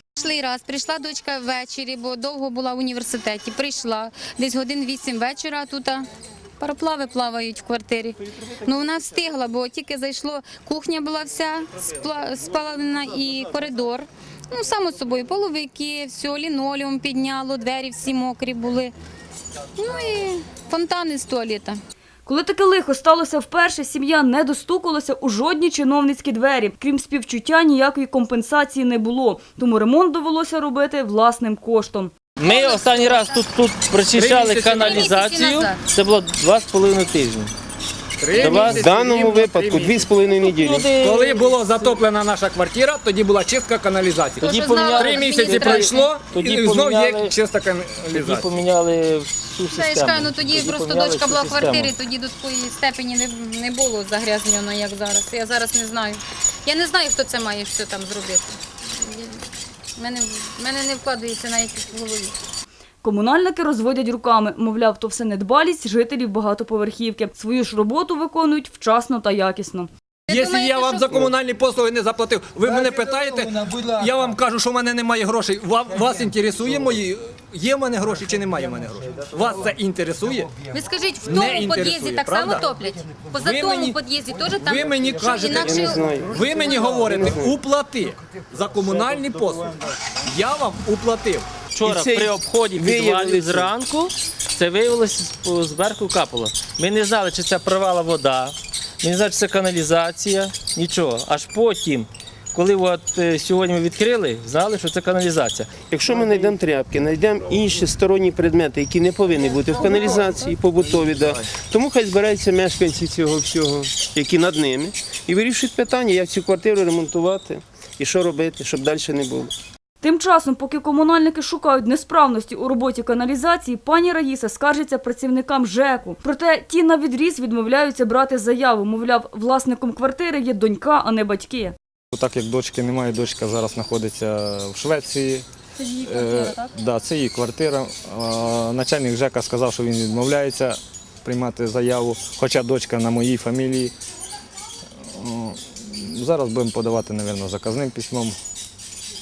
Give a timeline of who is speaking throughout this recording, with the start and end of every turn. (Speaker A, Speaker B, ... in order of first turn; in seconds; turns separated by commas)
Speaker A: 0.2-6.1, Speaker A: 6.6-18.9, Speaker A: 19.8-21.8, Speaker B: 22.3-32.1, Speaker C: 32.4-37.5, Speaker A: 32.4-33.4, Speaker D: 34.1-35.2, Speaker A: 34.8-35.8, Speaker D: 38.2-40.1, Speaker E: 38.4-40.9, Speaker C: 38.5-38.9, Speaker C: 40.4-42.0, Speaker D: 41.0-48.6, Speaker C: 44.4-47.4, Speaker A: 44.4-46.1, Speaker C: 48.1-51.9, Speaker A: 49.7-62.4, Speaker B: 63.0-69.9, Speaker A: 70.3-71.2, Speaker D: 70.3-80.6, Speaker A: 80.7-86.8, Speaker D: 81.3-82.8, Speaker D: 83.5-84.0, Speaker D: 84.5-91.5, Speaker E: 85.6-86.4, Speaker E: 86.9-87.6, Speaker C: 91.7-106.3, Speaker E: 91.8-93.7, Speaker E: 105.9-119.5, Speaker C: 109.7-110.1, Speaker A: 109.7-110.4, Speaker B: 120.0-131.8, Speaker F: 132.1-135.5, Speaker F: 136.0-143.9, Speaker A: 136.0-136.6, Speaker F: 145.1-148.3